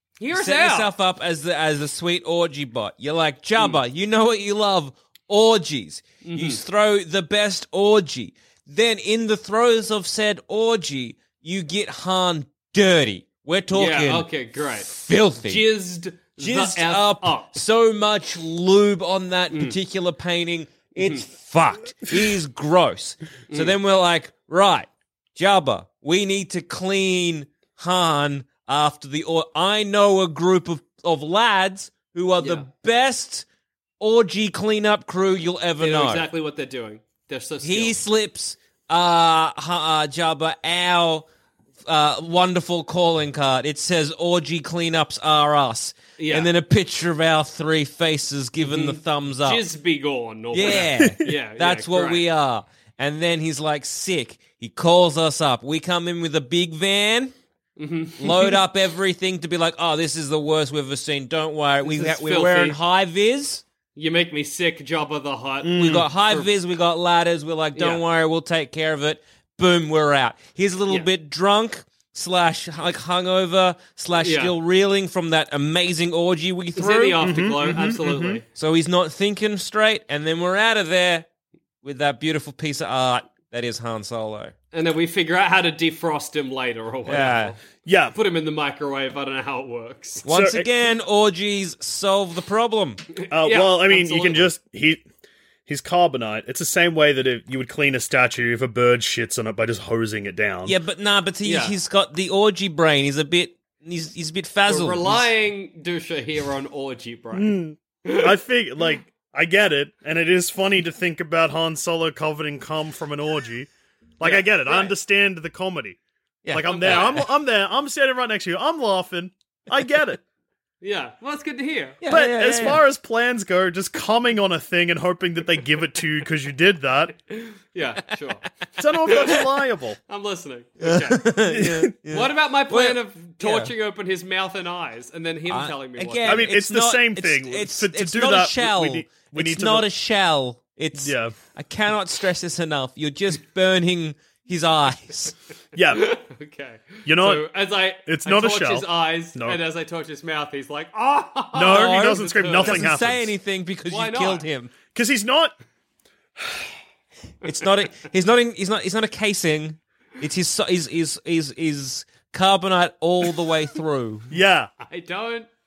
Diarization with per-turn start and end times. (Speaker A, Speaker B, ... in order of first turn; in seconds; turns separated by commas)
Speaker A: 0.2-0.9, Speaker B: 0.3-14.3, Speaker A: 6.2-6.6, Speaker A: 13.7-14.9, Speaker B: 14.9-15.6, Speaker A: 15.4-17.6, Speaker B: 16.4-33.5, Speaker B: 34.0-36.3, Speaker A: 35.8-38.0, Speaker B: 37.6-41.3, Speaker B: 41.9-49.6, Speaker A: 46.2-46.5, Speaker A: 48.7-52.2, Speaker B: 50.5-57.3, Speaker A: 57.8-58.6, Speaker B: 58.2-63.6, Speaker A: 61.8-62.8, Speaker A: 64.0-66.5, Speaker C: 65.6-66.1, Speaker B: 65.7-77.2, Speaker A: 67.8-68.0, Speaker A: 74.2-74.5, Speaker A: 76.8-78.4, Speaker C: 77.2-78.4, Speaker B: 78.5-81.3, Speaker B: 81.8-84.5, Speaker A: 84.7-87.6, Speaker B: 87.1-87.5, Speaker C: 87.8-88.2, Speaker A: 88.1-90.2, Speaker B: 90.2-93.0, Speaker C: 90.3-90.7, Speaker A: 93.2-94.5, Speaker C: 93.3-95.0, Speaker C: 95.7-100.7, Speaker B: 100.7-105.3, Speaker A: 101.4-101.8, Speaker A: 104.7-108.3, Speaker C: 107.3-113.7, Speaker C: 114.2-116.0, Speaker A: 114.2-114.9, Speaker B: 116.4-117.3, Speaker C: 116.5-120.2, Speaker A: 116.7-117.3, Speaker A: 120.8-122.0, Speaker B: 122.0-122.8, Speaker C: 122.1-127.2, Speaker A: 127.3-128.5, Speaker C: 128.8-130.0, Speaker A: 129.1-129.4, Speaker A: 130.1-131.3, Speaker B: 130.8-133.7, Speaker C: 131.4-132.0, Speaker A: 132.1-136.5, Speaker B: 135.5-145.3, Speaker C: 136.2-139.9, Speaker C: 141.0-141.3, Speaker C: 145.8-146.2, Speaker A: 145.9-153.0, Speaker C: 147.1-149.6, Speaker C: 151.5-153.3, Speaker B: 151.7-154.7, Speaker A: 153.9-154.5, Speaker C: 154.9-155.6, Speaker B: 157.4-164.3, Speaker C: 164.3-164.7, Speaker A: 164.8-165.5